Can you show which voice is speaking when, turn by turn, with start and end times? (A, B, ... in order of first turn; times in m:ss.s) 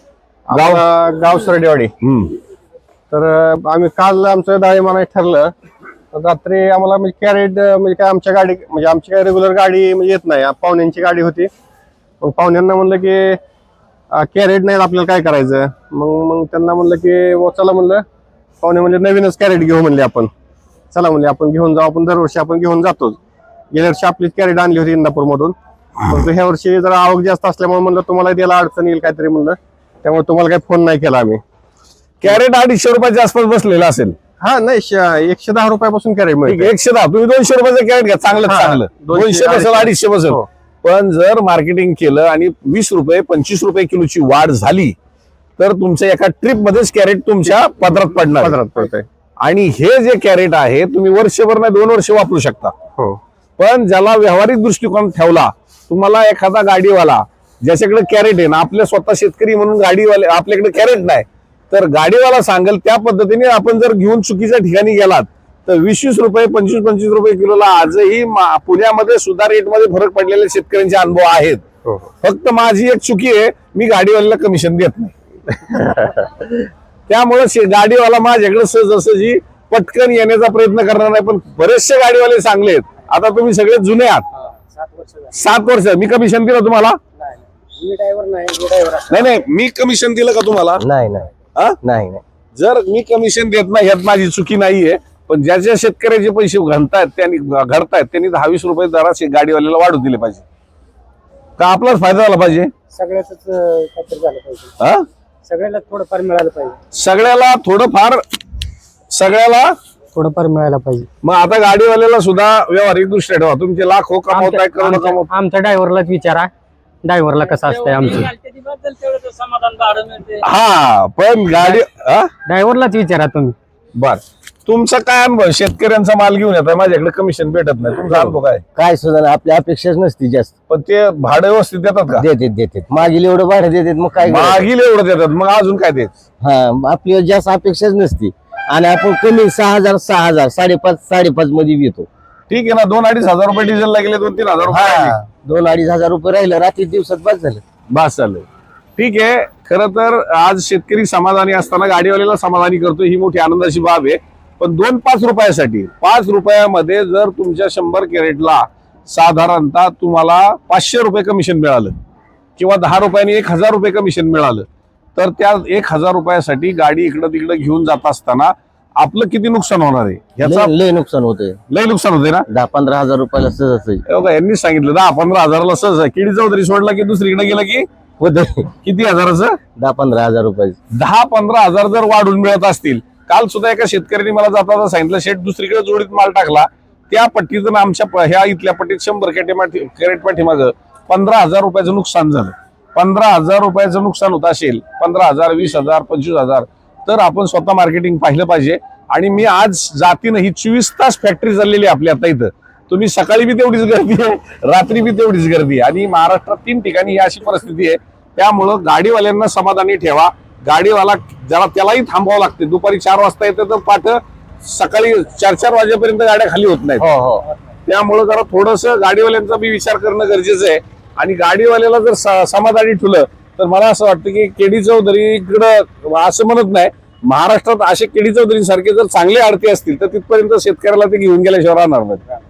0:00.5-0:01.9 A
0:00.5-0:00.8 B
0:02.0-0:02.4 B
0:03.1-0:05.5 A
0:06.1-0:11.5 A
0:12.2-0:13.4 A
0:14.1-0:18.0 A
0:18.6-0:20.3 A
0:20.9-0:23.2 A
0:23.7-0:31.4 A
0:32.2-0:34.2 B
0:34.4-0:36.7 A
0:36.5-0:45.0 B
0:38.5-0:40.5 A
0:45.6-0:48.6 B
0:48.3-0:49.0 A
0:49.4-0:52.7 B
0:53.6-1:11.6 B
1:12.2-1:15.1 B
1:15.7-1:16.5 B
1:15.7-1:16.1 A
1:17.1-1:24.3 B
1:24.6-1:25.3 C
1:25.3-1:27.0 B
1:27.2-1:29.3 C
1:29.1-1:30.8 B
1:30.8-1:31.3 D
1:31.8-1:32.2 D
1:32.6-1:40.4 B
1:41.6-1:42.7 B
1:42.9-1:44.7 C
1:44.8-1:45.1 B
1:45.5-1:46.8 C
1:46.9-1:48.2 B
1:49.1-1:49.7 B
1:50.1-1:51.1 C
1:51.2-1:55.3 B
1:54.3-1:56.5 C
1:57.0-1:58.3 C
1:57.7-2:00.0 E
2:00.4-2:02.3 B
2:02.5-2:03.6 C
2:04.0-2:08.6 B
2:08.8-2:10.5 D
2:10.7-2:12.2 B
2:12.2-2:14.7 D
2:14.2-2:16.1 B
2:16.4-2:22.1 D
2:22.5-2:25.2 B
2:24.7-2:27.6 D
2:27.9-2:28.5 B
2:29.0-2:42.0 B
2:42.6-2:50.7 B
2:50.4-2:51.6 D
2:51.7-2:52.5 B
2:52.5-2:54.0 D
2:54.1-2:57.8 B
2:58.2-2:58.7 D
2:58.8-2:59.6 B
2:59.8-3:00.8 D
3:00.9-3:37.0 B
3:37.0-3:37.5 D
3:37.9-3:52.2 B